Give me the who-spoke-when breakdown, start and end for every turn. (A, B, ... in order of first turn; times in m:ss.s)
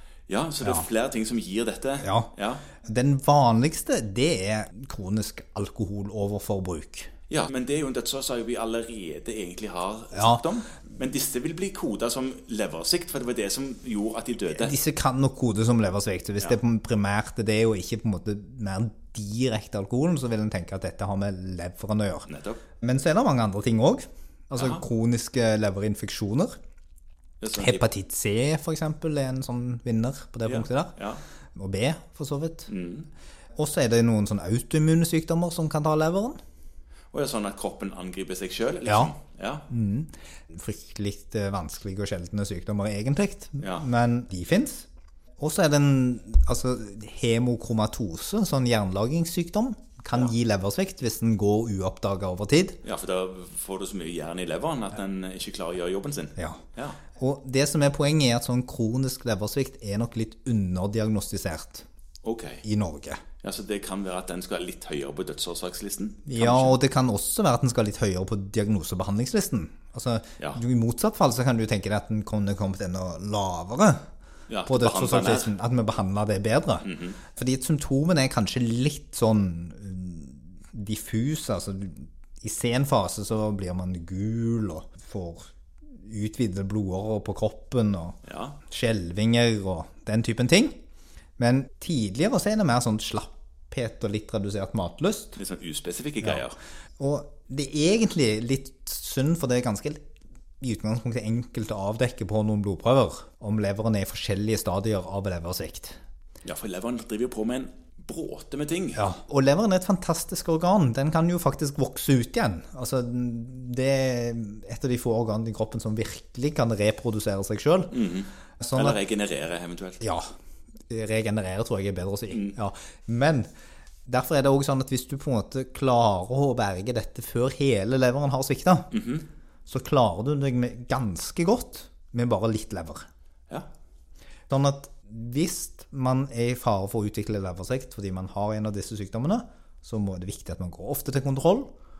0:00.3-0:02.6 A
0:02.0-0:02.3 B
0:02.8-0:07.1 B
0:07.3-0:14.7 A
0:10.1-0:10.4 B
0:14.5-0:22.3 B
0:22.3-0:22.6 A
0:22.8-0:26.6 B
0:24.6-0:24.8 A
0:27.4-0:27.8 A
0:27.6-0:31.0 B
0:30.4-0:31.2 A
0:31.6-0:32.7 B
0:32.7-0:33.1 A
0:33.6-0:36.4 B
0:37.1-0:39.7 A
0:38.8-0:39.1 B
0:39.7-0:44.9 B
0:43.6-0:43.9 A
0:45.4-0:52.8 B
0:52.8-0:57.0 A
0:57.2-1:01.8 B
1:02.2-1:02.6 A
1:02.6-1:03.2 B
1:03.4-1:06.8 A
1:06.3-1:14.0 B
1:14.5-1:15.5 A
1:14.6-1:28.2 B
1:16.8-1:17.2 A
1:28.2-1:28.6 A
1:28.7-1:30.7 B
1:31.4-1:35.4 B
1:35.4-1:36.6 A
1:37.0-1:40.0 B
1:40.6-1:46.0 B
1:46.4-1:49.2 A
1:48.9-1:57.9 B
1:57.9-2:00.0 A
1:58.6-1:59.0 B
2:00.0-2:00.3 B
2:00.9-2:03.5 B
2:02.3-2:02.6 A
2:04.0-2:08.9 B
2:08.9-2:09.2 A
2:09.7-2:13.0 B
2:14.5-2:21.7 B